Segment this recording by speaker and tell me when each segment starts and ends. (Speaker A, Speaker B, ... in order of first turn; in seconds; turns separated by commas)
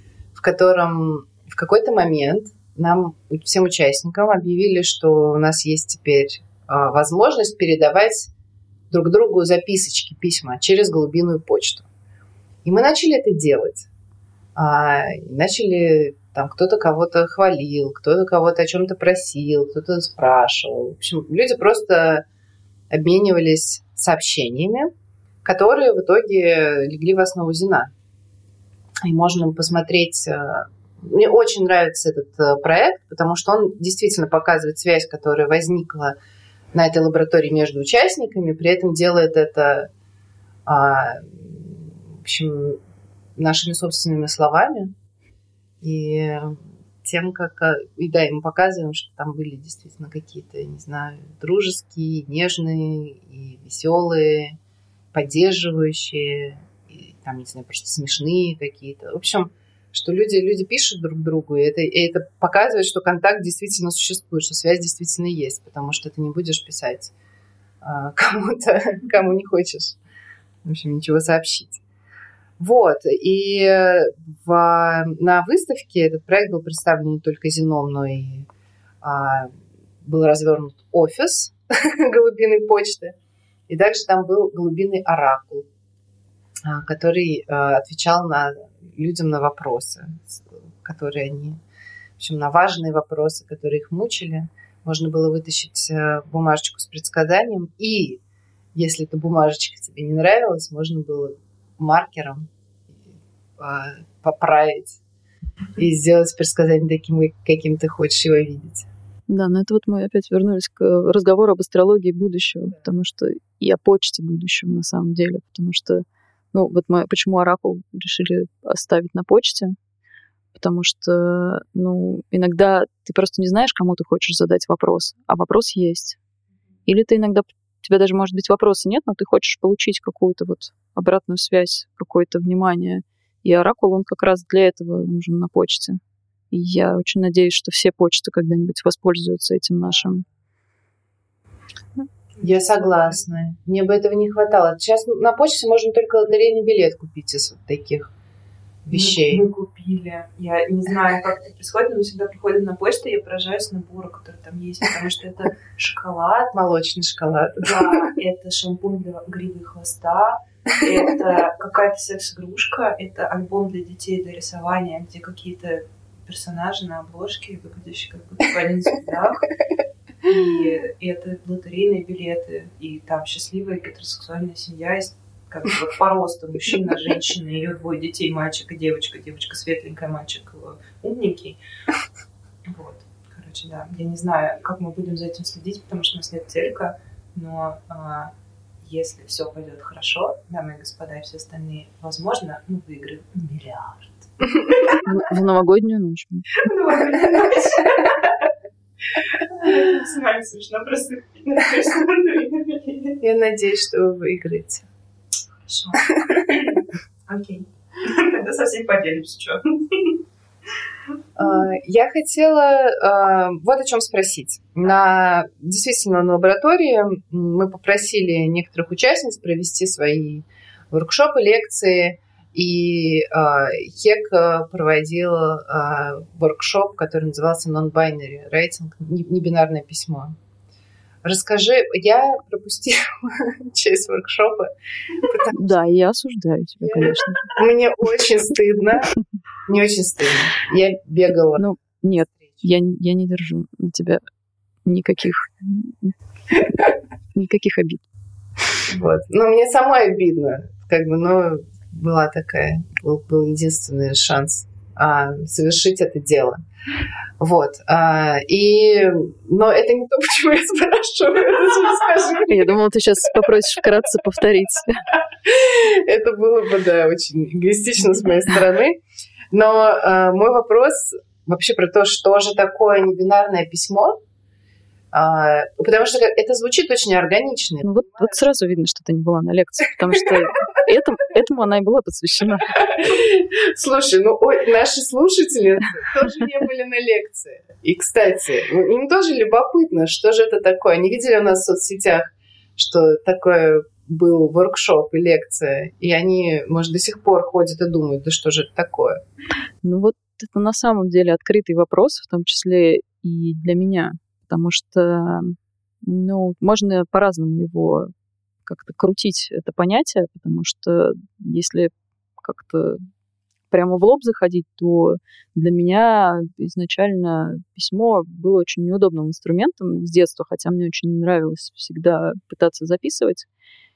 Speaker A: 0.3-8.3, Speaker A: 8.9-11.9, Speaker A: 12.6-13.9, Speaker A: 14.6-22.3, Speaker A: 22.9-24.9, Speaker A: 25.4-27.9, Speaker A: 29.0-36.1, Speaker A: 36.7-39.9, Speaker A: 40.7-42.8, Speaker A: 43.4-44.9, Speaker A: 45.8-54.6, Speaker A: 55.1-67.1, Speaker A: 67.8-70.0, Speaker A: 70.6-71.8, Speaker A: 72.6-78.5, Speaker A: 79.0-79.5, Speaker A: 80.0-83.2, Speaker A: 83.7-85.7, Speaker A: 86.7-91.6, Speaker A: 92.2-98.2, Speaker A: 98.8-102.5, Speaker A: 103.6-105.0, Speaker A: 105.8-108.9, Speaker B: 109.3-119.8, Speaker B: 120.5-126.2, Speaker B: 126.9-136.0, Speaker B: 136.5-140.2, Speaker A: 142.4-148.1, Speaker A: 148.8-149.4, Speaker C: 148.9-156.6, Speaker A: 156.5-158.1, Speaker C: 157.6-169.5, Speaker C: 170.2-181.6, Speaker C: 182.7-188.3, Speaker C: 188.8-195.1, Speaker B: 194.9-196.7, Speaker C: 196.6-198.5, Speaker C: 199.2-203.2, Speaker A: 203.2-204.9, Speaker C: 205.7-210.2, Speaker A: 211.4-230.3, Speaker A: 231.2-235.6, Speaker B: 235.5-237.6, Speaker A: 236.8-239.1, Speaker A: 239.7-241.6, Speaker B: 241.6-244.2, Speaker B: 244.8-248.1, Speaker A: 248.9-256.6, Speaker A: 257.4-262.7, Speaker B: 262.5-265.0, Speaker A: 265.4-269.0, Speaker A: 269.5-274.2, Speaker A: 275.1-278.4, Speaker B: 277.8-283.0, Speaker A: 282.8-299.2, Speaker B: 299.8-308.1, Speaker B: 308.7-313.1, Speaker B: 313.7-323.5